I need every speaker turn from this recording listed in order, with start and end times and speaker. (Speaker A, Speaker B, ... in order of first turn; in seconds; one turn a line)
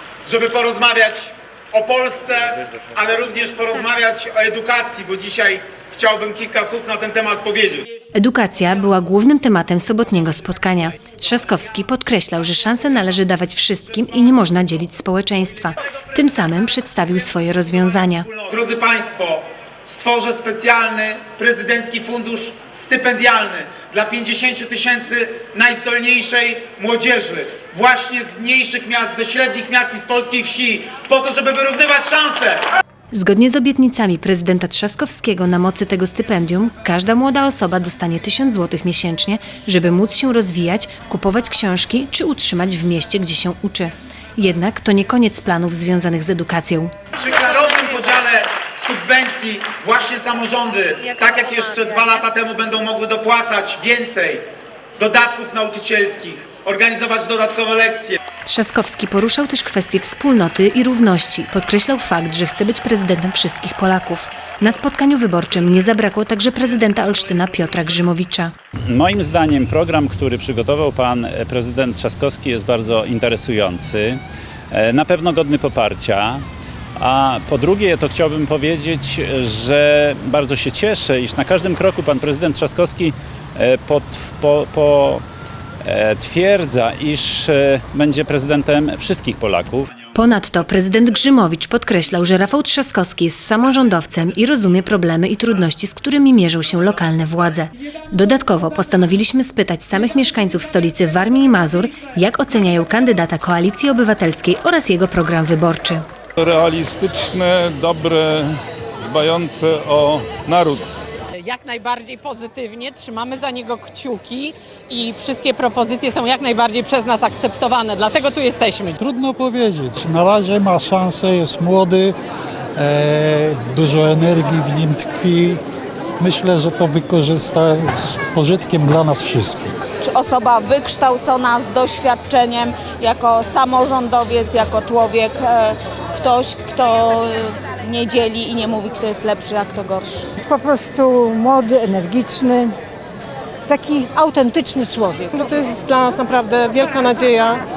Speaker A: 0.2-8.0
Speaker B: 8.1-18.3
Speaker A: 17.6-32.6
Speaker B: 33.1-46.9
Speaker A: 47.1-54.5
Speaker A: 55.0-58.2
Speaker B: 58.5-68.5
Speaker C: 68.9-74.2
Speaker C: 74.7-76.5
Speaker C: 77.0-85.2
Speaker C: 85.8-89.9
Speaker B: 90.1-106.0
Speaker D: 106.4-110.8
Speaker E: 111.4-119.0
Speaker F: 119.0-122.2
Speaker F: 122.8-125.6
Speaker F: 126.2-129.7
Speaker G: 130.0-140.2
Speaker H: 140.4-142.7
Speaker H: 143.7-145.3
Speaker I: 145.4-147.6